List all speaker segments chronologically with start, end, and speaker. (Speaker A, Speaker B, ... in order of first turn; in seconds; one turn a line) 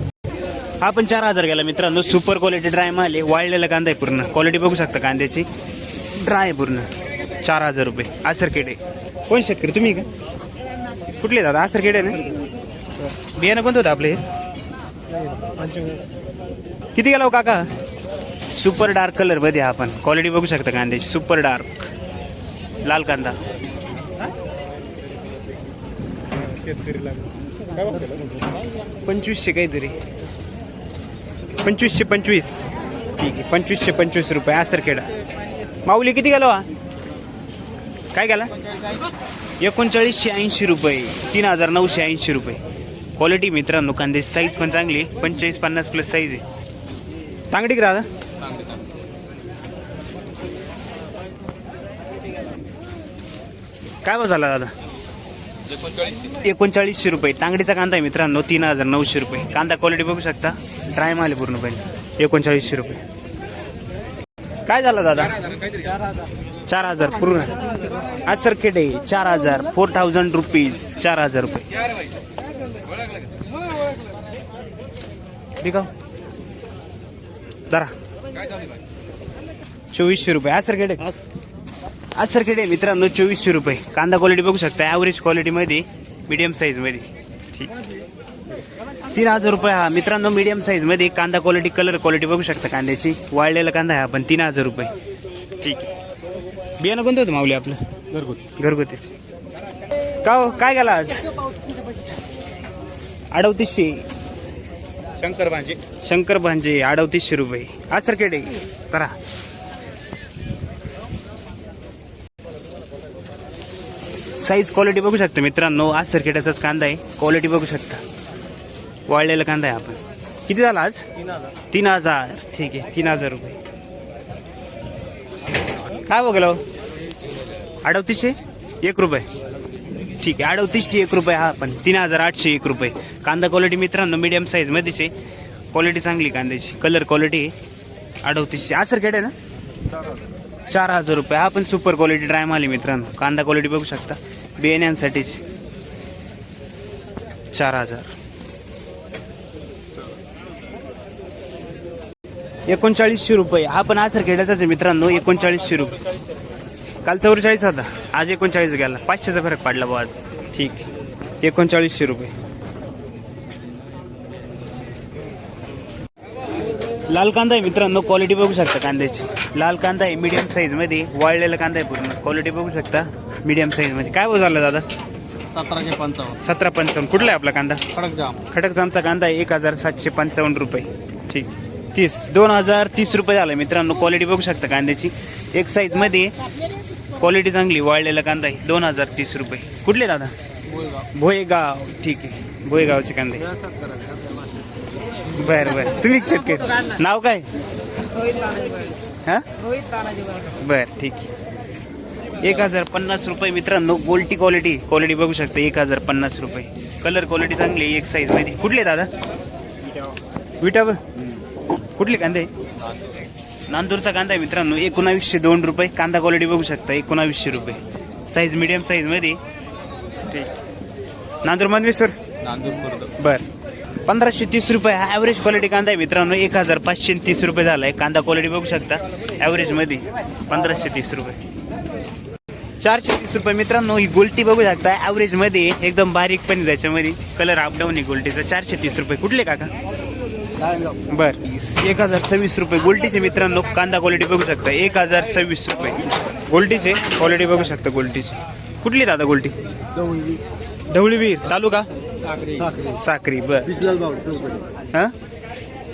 Speaker A: 0.8-5.5
Speaker A: 6.1-6.9
Speaker A: 7.4-8.8
Speaker A: 9.3-10.1
Speaker A: 11.2-12.3
Speaker A: 13.0-14.2
Speaker A: 16.9-17.7
Speaker A: 18.6-21.7
Speaker A: 22.9-23.4
Speaker B: 27.8-28.1
Speaker A: 29.0-30.0
Speaker A: 31.6-35.1
Speaker A: 35.9-36.6
Speaker A: 38.1-38.5
Speaker A: 39.6-42.6
Speaker A: 43.2-46.4
Speaker A: 47.5-48.0
Speaker A: 54.0-54.7
Speaker A: 56.2-63.0
Speaker A: 64.7-65.5
Speaker A: 66.7-67.6
Speaker A: 68.2-71.7
Speaker A: 75.6-75.9
Speaker A: 79.9-81.1
Speaker A: 82.2-87.7
Speaker A: 89.1-94.9
Speaker A: 95.6-95.9
Speaker A: 96.8-99.1
Speaker A: 100.2-101.2
Speaker A: 103.3-104.0
Speaker A: 105.2-109.2
Speaker A: 114.4-118.0
Speaker A: 119.1-121.0
Speaker A: 121.7-123.6
Speaker A: 126.1-126.6
Speaker A: 127.8-129.3
Speaker A: 130.2-135.1
Speaker A: 135.7-137.5
Speaker A: 138.2-139.3
Speaker A: 140.7-145.4
Speaker A: 147.5-148.1
Speaker A: 152.7-156.0
Speaker A: 157.0-160.8
Speaker A: 161.4-162.3
Speaker A: 167.1-174.8
Speaker B: 175.5-176.3
Speaker A: 176.3-177.9
Speaker B: 177.9-178.4
Speaker A: 178.4-186.3
Speaker A: 187.1-190.3
Speaker A: 191.1-193.5
Speaker B: 193.6-194.4
Speaker A: 195.3-197.5
Speaker B: 198.3-198.9
Speaker B: 199.9-200.3
Speaker A: 200.6-201.3
Speaker A: 202.4-209.1
Speaker A: 210.6-211.0
Speaker A: 211.9-212.5
Speaker A: 213.7-219.4
Speaker A: 221.4-223.5
Speaker B: 222.6-223.1
Speaker A: 224.0-231.4
Speaker A: 232.8-239.7
Speaker B: 240.6-241.0
Speaker A: 241.1-249.5
Speaker B: 250.0-250.4
Speaker A: 250.9-251.9
Speaker B: 252.3-252.9
Speaker A: 252.8-253.9
Speaker B: 253.9-254.7